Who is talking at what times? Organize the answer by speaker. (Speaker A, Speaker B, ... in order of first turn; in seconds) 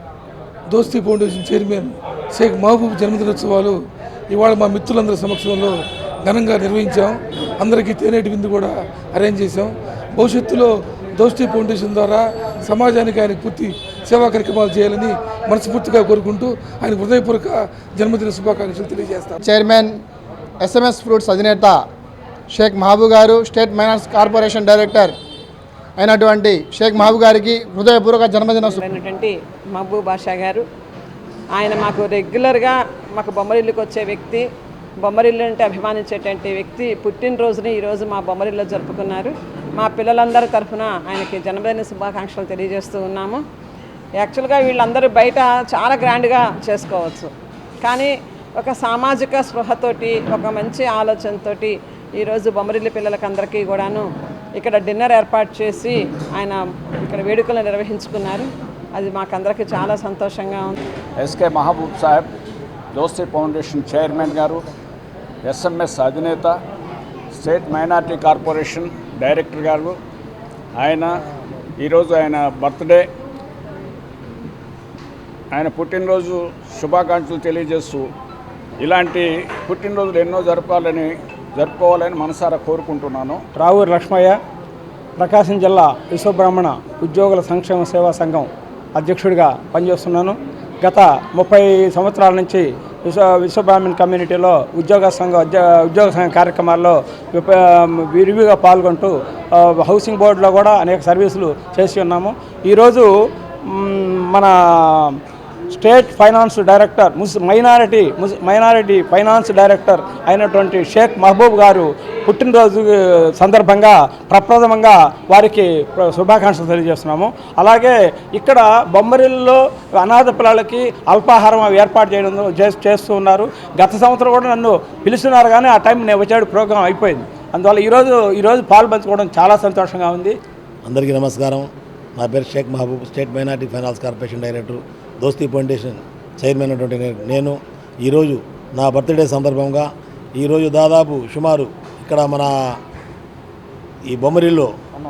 Speaker A: 0.7-3.8, 4.3-19.3
Speaker B: 19.4-19.9, 20.6-21.8, 22.5-25.1, 26.0-28.8
Speaker C: 28.5-30.6, 31.6-34.4, 35.0-43.4, 44.2-47.3, 47.8-54.0, 54.6-60.8
Speaker D: 61.2-62.3, 62.9-64.6, 65.4-66.6, 67.3-70.0, 70.8-71.2, 71.8-73.0, 75.5-78.1, 78.8-83.4
Speaker E: 83.5-84.4, 85.2-103.1, 103.7-105.2, 105.7-130.3
Speaker F: 130.8-142.5, 144.1-144.7